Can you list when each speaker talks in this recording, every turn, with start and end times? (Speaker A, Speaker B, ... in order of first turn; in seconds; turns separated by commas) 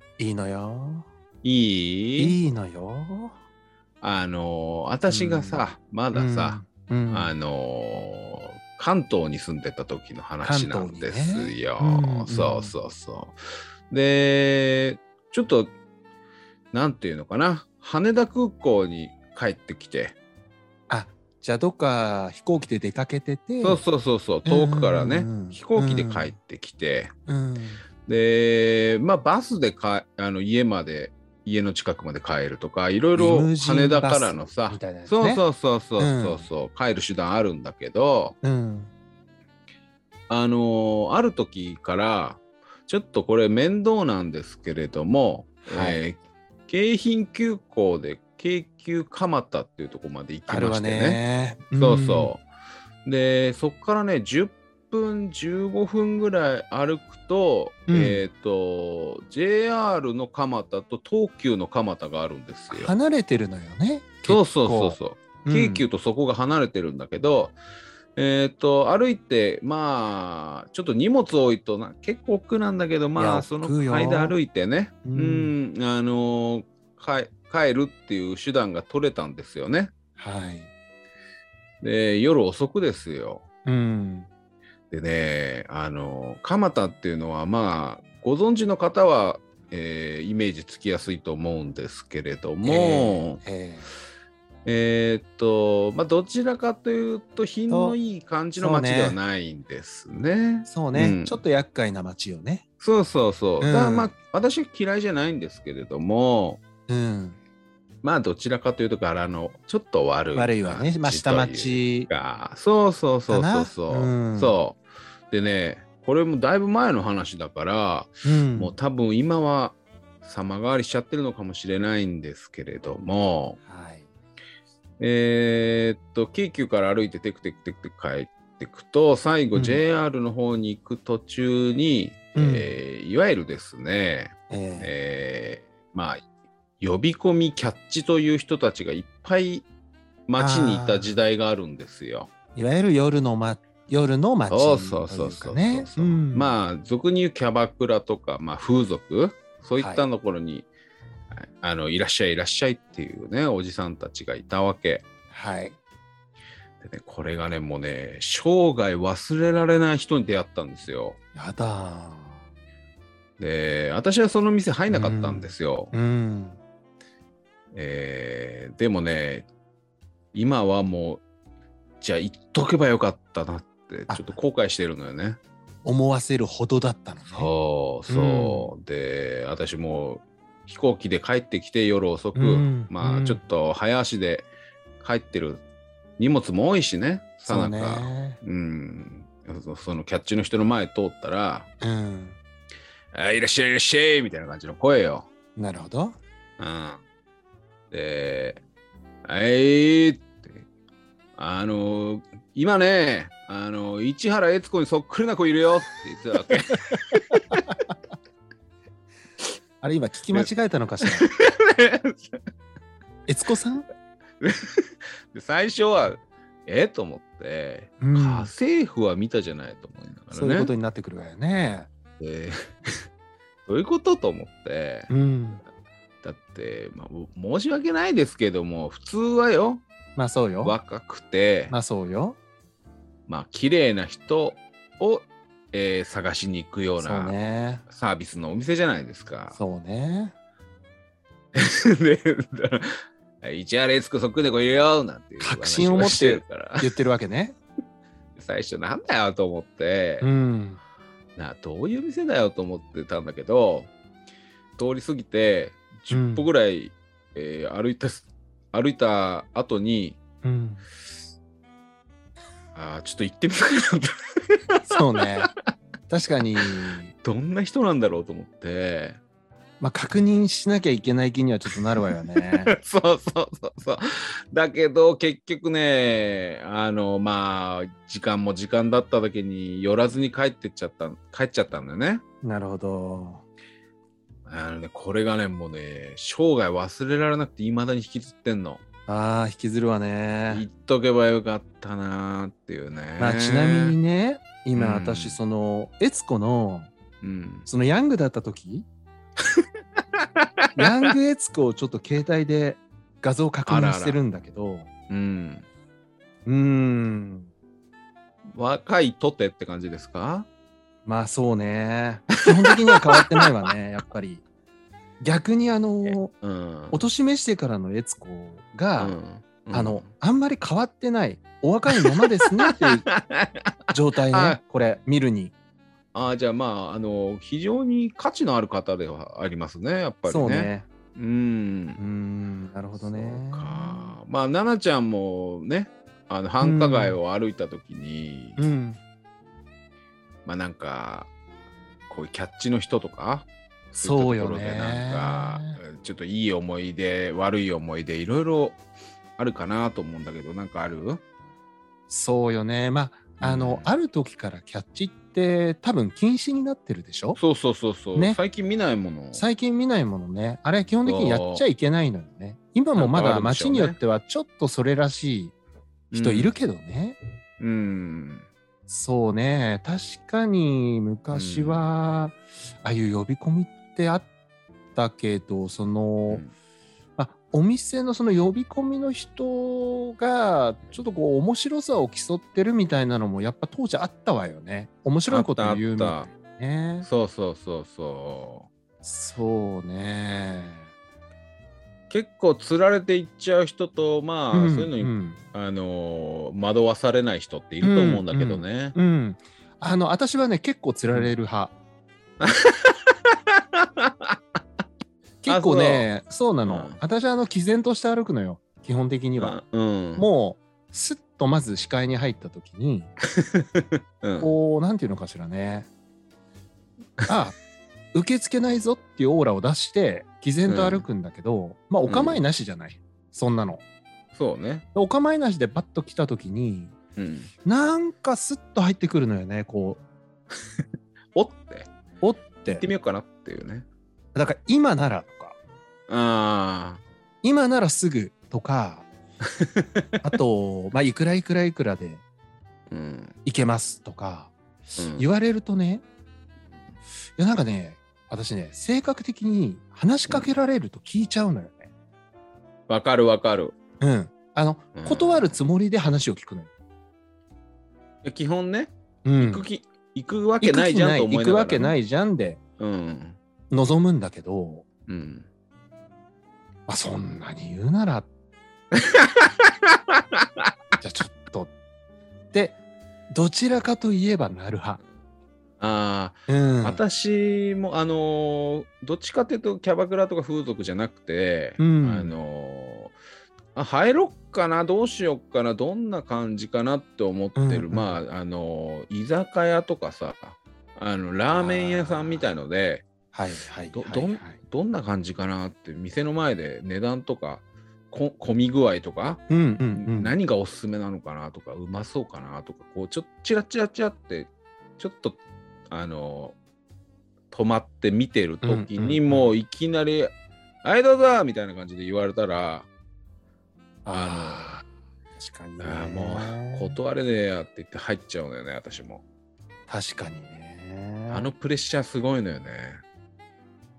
Speaker A: 0.2-1.1, Speaker B: 1.4-2.4, Speaker A: 2.2-3.4, Speaker B: 4.0-6.6, Speaker A: 5.1-7.3, Speaker B: 7.1-13.3, Speaker A: 10.4-12.7, Speaker B: 13.9-15.7, Speaker B: 16.7-20.1, Speaker A: 20.9-23.8, Speaker B: 23.6-27.1, Speaker A: 24.4-26.3, Speaker A: 27.3-27.8, Speaker B: 28.0-38.3, Speaker A: 33.1-35.4, Speaker A: 36.0-36.5, Speaker A: 38.4-38.9, Speaker B: 40.3-51.2, Speaker A: 45.6-46.0, Speaker A: 50.5-52.3, Speaker B: 51.8-52.4, Speaker B: 53.0-62.9, Speaker A: 57.9-58.2, Speaker A: 62.7-65.8, Speaker B: 64.2-67.5, Speaker B: 68.2-79.9, Speaker A: 73.2-74.3, Speaker A: 75.0-75.5, Speaker A: 80.2-80.7, Speaker B: 81.8-83.4, Speaker A: 83.7-84.3, Speaker B: 84.9-93.4, Speaker A: 92.6-93.9, Speaker B: 94.6-101.4, Speaker A: 97.7-98.0, Speaker A: 98.5-99.2, Speaker A: 100.7-102.6, Speaker B: 102.8-106.6, Speaker A: 103.6-104.1, Speaker A: 106.9-107.4, Speaker B: 108.0-123.6, Speaker A: 110.3-112.1, Speaker A: 113.3-114.6, Speaker A: 118.2-118.8, Speaker A: 123.6-124.1, Speaker B: 125.0-136.2, Speaker A: 129.5-129.8, Speaker A: 132.3-132.7, Speaker A: 134.5-134.9, Speaker B: 136.8-139.7, Speaker B: 140.3-142.3, Speaker A: 140.4-141.1, Speaker A: 142.5-146.5, Speaker B: 144.5-150.7, Speaker A: 149.8-150.1, Speaker B: 151.3-155.0, Speaker A: 155.3-155.8, Speaker B: 156.8-161.2, Speaker A: 161.3-162.4, Speaker B: 163.4-165.9, Speaker A: 164.9-166.6, Speaker B: 167.7-169.5, Speaker B: 170.3-171.2, Speaker B: 172.0-175.4, Speaker A: 174.1-174.4, Speaker A: 175.8-177.5, Speaker B: 177.3-184.5, Speaker A: 178.1-178.7, Speaker A: 182.3-183.4, Speaker B: 185.0-185.6, Speaker B: 186.2-191.7, Speaker A: 187.5-188.4, Speaker A: 191.8-192.4, Speaker B: 193.1-195.3, Speaker A: 195.6-196.2, Speaker B: 196.6-197.0, Speaker B: 197.9-198.6, Speaker B: 199.2-200.6, Speaker B: 201.4-207.6, Speaker A: 209.8-211.3, Speaker B: 211.0-212.4, Speaker A: 213.3-213.9, Speaker B: 214.4-220.7, Speaker A: 218.0-218.5, Speaker A: 220.3-221.9, Speaker B: 222.2-222.9, Speaker B: 223.7-225.1, Speaker A: 225.1-225.6, Speaker B: 226.2-229.8, Speaker A: 230.2-230.8, Speaker B: 230.6-231.7, Speaker A: 231.7-232.4, Speaker B: 233.3-237.3, Speaker A: 237.0-237.8, Speaker B: 237.9-239.6, Speaker A: 239.5-240.3, Speaker B: 241.5-246.9, Speaker A: 245.4-247.6, Speaker B: 248.3-250.3, Speaker A: 250.2-250.8, Speaker B: 251.3-253.9, Speaker B: 254.8-260.2, Speaker A: 256.1-256.5, Speaker A: 260.4-260.8, Speaker B: 262.7-264.8, Speaker A: 264.9-265.5, Speaker A: 266.1-267.1, Speaker B: 267.2-269.2, Speaker A: 269.8-272.7, Speaker B: 272.6-282.2, Speaker A: 282.4-283.4, Speaker B: 284.4-288.8, Speaker A: 289.1-290.6, Speaker B: 290.5-294.0, Speaker A: 293.2-296.9, Speaker B: 294.8-295.4, Speaker B: 297.2-297.7, Speaker A: 297.6-298.9, Speaker B: 300.4-301.1, Speaker A: 300.8-304.9, Speaker B: 303.6-304.2, Speaker B: 305.1-305.7, Speaker A: 306.4-307.5, Speaker B: 308.5-310.5, Speaker A: 311.0-314.4, Speaker B: 312.7-313.4, Speaker A: 315.2-316.3, Speaker B: 316.0-317.1, Speaker A: 316.9-319.2, Speaker B: 319.0-320.1, Speaker A: 319.7-323.1, Speaker B: 322.0-323.6, Speaker A: 323.9-325.5, Speaker B: 324.3-324.6, Speaker B: 326.1-332.0, Speaker A: 330.2-330.9, Speaker A: 331.9-334.2, Speaker B: 332.9-338.6, Speaker A: 336.6-337.2, Speaker A: 338.6-339.0, Speaker B: 340.4-341.3, Speaker B: 342.1-348.8, Speaker A: 344.0-345.8, Speaker B: 349.4-351.2, Speaker A: 352.1-357.4, Speaker B: 353.4-353.9, Speaker B: 357.4-359.4, Speaker A: 359.3-365.5, Speaker B: 361.0-361.6, Speaker B: 362.9-364.0, Speaker B: 366.1-366.5, Speaker A: 366.1-367.2, Speaker B: 367.6-368.5, Speaker A: 368.9-374.3, Speaker B: 371.3-371.9, Speaker A: 374.9-376.4, Speaker A: 377.2-387.1, Speaker B: 385.3-386.3, Speaker B: 387.0-388.7, Speaker A: 389.0-390.9, Speaker B: 392.1-398.9, Speaker A: 394.5-395.4, Speaker A: 397.8-401.7, Speaker B: 402.4-403.1, Speaker B: 403.8-404.4, Speaker A: 405.4-409.6, Speaker B: 405.5-406.1, Speaker B: 406.6-407.0, Speaker B: 409.4-410.3, Speaker A: 410.2-413.1, Speaker B: 413.4-414.6, Speaker A: 414.4-415.9, Speaker A: 417.3-417.6, Speaker A: 418.1-423.8, Speaker B: 420.7-421.1, Speaker B: 422.1-422.4, Speaker B: 424.3-424.8, Speaker A: 424.9-426.9, Speaker B: 427.1-427.5, Speaker A: 427.6-430.0, Speaker B: 431.3-431.9, Speaker A: 432.2-432.9, Speaker B: 432.7-433.9, Speaker A: 434.3-435.6, Speaker B: 436.1-437.0, Speaker A: 437.4-439.1, Speaker B: 439.4-440.3, Speaker A: 440.2-442.2, Speaker B: 442.9-443.4, Speaker A: 443.4-444.5, Speaker B: 444.9-445.3, Speaker A: 445.1-446.0, Speaker A: 447.4-451.9, Speaker B: 452.9-453.8, Speaker A: 454.0-456.7, Speaker B: 454.9-455.6, Speaker B: 458.2-462.0, Speaker A: 459.2-459.7, Speaker A: 460.6-462.6, Speaker B: 462.8-463.4, Speaker A: 463.7-464.8, Speaker B: 465.1-465.5, Speaker A: 466.9-468.3, Speaker B: 468.9-470.7, Speaker A: 471.0-471.7, Speaker A: 472.5-472.8, Speaker A: 473.3-475.0, Speaker B: 475.8-483.1, Speaker A: 476.5-477.0, Speaker A: 481.8-482.3, Speaker B: 483.7-493.0, Speaker A: 487.6-488.1, Speaker A: 491.5-492.5, Speaker A: 493.3-494.6, Speaker B: 493.9-499.4, Speaker A: 499.5-500.3, Speaker B: 499.9-505.4, Speaker B: 505.9-506.6, Speaker B: 507.5-512.9, Speaker A: 508.6-509.5, Speaker A: 514.0-514.8, Speaker B: 514.1-514.7, Speaker A: 515.4-517.0, Speaker B: 515.8-519.2, Speaker A: 519.9-521.5, Speaker B: 521.3-523.0